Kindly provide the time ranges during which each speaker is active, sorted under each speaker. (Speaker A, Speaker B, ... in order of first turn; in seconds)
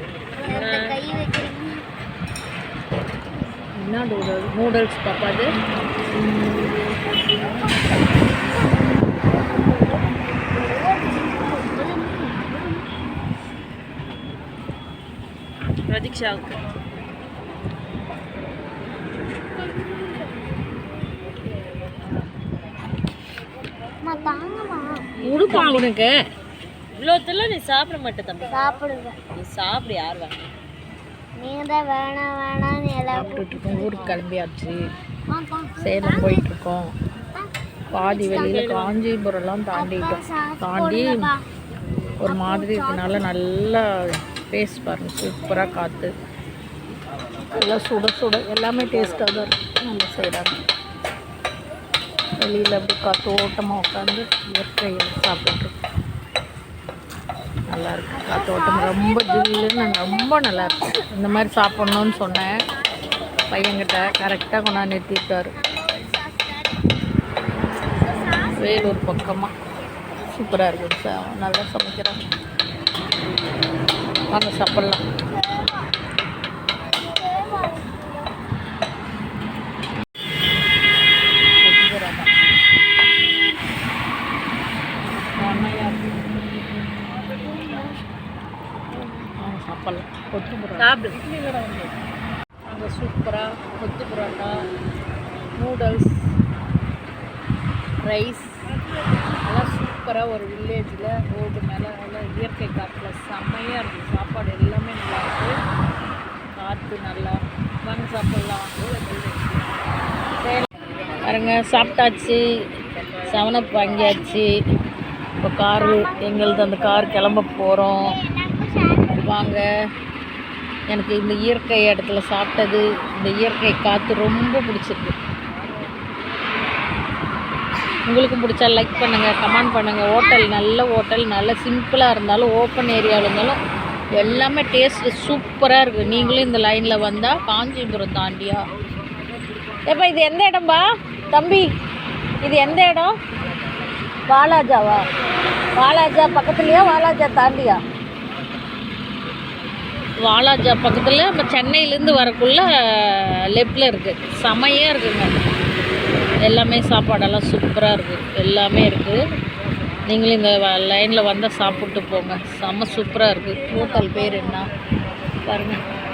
Speaker A: 0.4-1.8, 7.8-8.6, 10.6-12.7, 24.0-25.1, 28.5-29.2, 31.4-34.2, 35.3-36.5, 37.3-38.6, 39.7-41.4, 42.2-43.3, 58.1-64.9, 65.5-66.9, 67.9-68.9, 75.3-75.8, 76.9-78.2, 87.4-87.9, 114.0-114.4, 115.7-119.5, 128.9-130.6, 163.7-164.6
Speaker B: 0.5-1.0, 15.9-16.6, 25.2-25.9, 26.9-28.5, 29.3-30.5, 38.2-38.9, 90.8-91.2
Speaker C: 3.8-5.5, 25.2-26.1, 33.2-34.8, 35.8-36.9, 37.9-41.1, 42.2-43.8, 44.5-46.1, 47.5-50.6, 52.4-55.7, 57.7-62.5, 63.5-65.5, 68.6-69.5, 70.3-72.2, 74.3-75.0, 81.6-82.3, 85.3-86.1, 89.4-91.9, 92.7-94.5, 95.6-96.1, 98.1-98.5, 99.4-105.5, 106.6-108.7, 110.4-110.7, 111.2-112.4, 113.2-114.5, 115.4-118.1, 119.2-119.6, 120.9-125.1, 128.1-133.6, 134.2-138.6, 139.9-141.7, 142.4-143.1, 144.3-145.0, 145.8-147.8, 150.2-155.3, 156.4-159.2, 160.1-164.7, 165.4-165.8